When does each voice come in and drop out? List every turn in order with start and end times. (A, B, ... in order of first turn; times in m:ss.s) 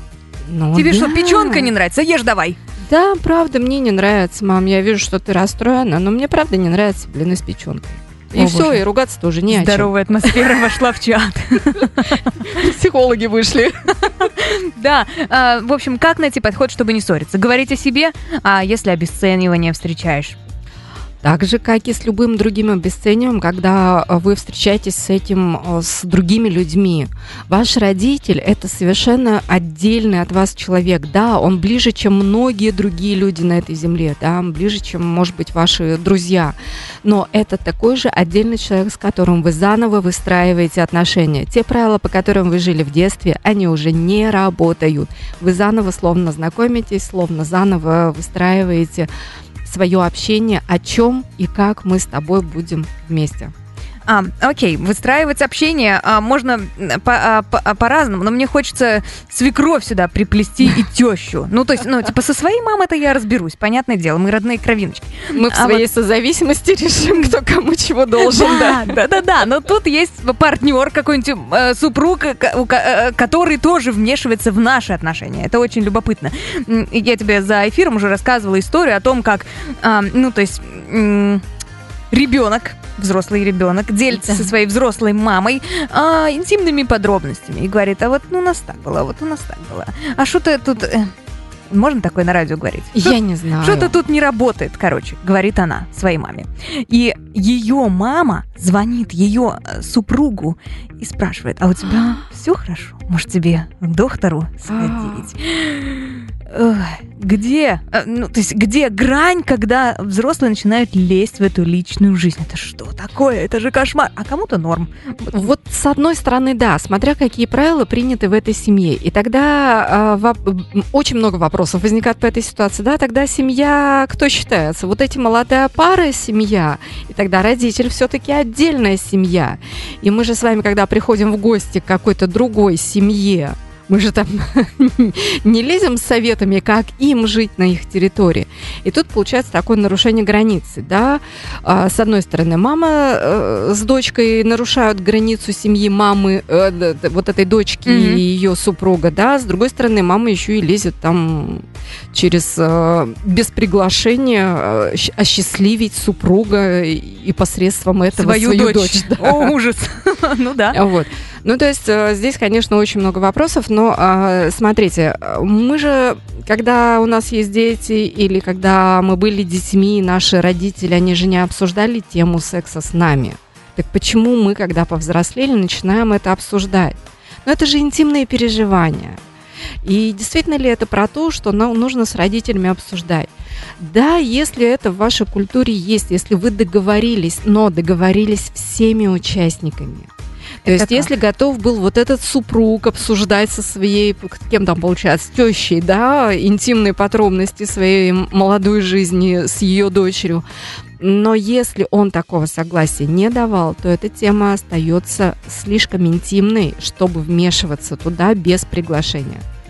0:00.5-0:01.7 A
0:00.8-0:02.6 B
0:02.8-0:10.7 A
0:08.4-0:08.8 B
0:09.5-0:12.4 B
0:11.7-0:14.1 A
0:14.1-0:20.4 B
0:21.2-0:49.1 A
0:49.6-0:53.5 A
0:54.1-1:05.8 B
1:05.3-1:09.0 A
1:08.2-1:21.4 B
1:22.1-1:31.1 B
1:24.1-1:24.5 A
1:31.7-1:55.5 B
1:32.9-1:34.0 A
1:44.7-1:45.3 A
1:55.3-2:39.5 A
2:27.9-2:28.2 B
2:38.2-2:40.8 B
2:40.7-2:59.2 A
2:59.8-3:10.1 A
3:10.6-3:11.1 B
3:10.6-3:20.4 A
3:21.0-3:29.4 A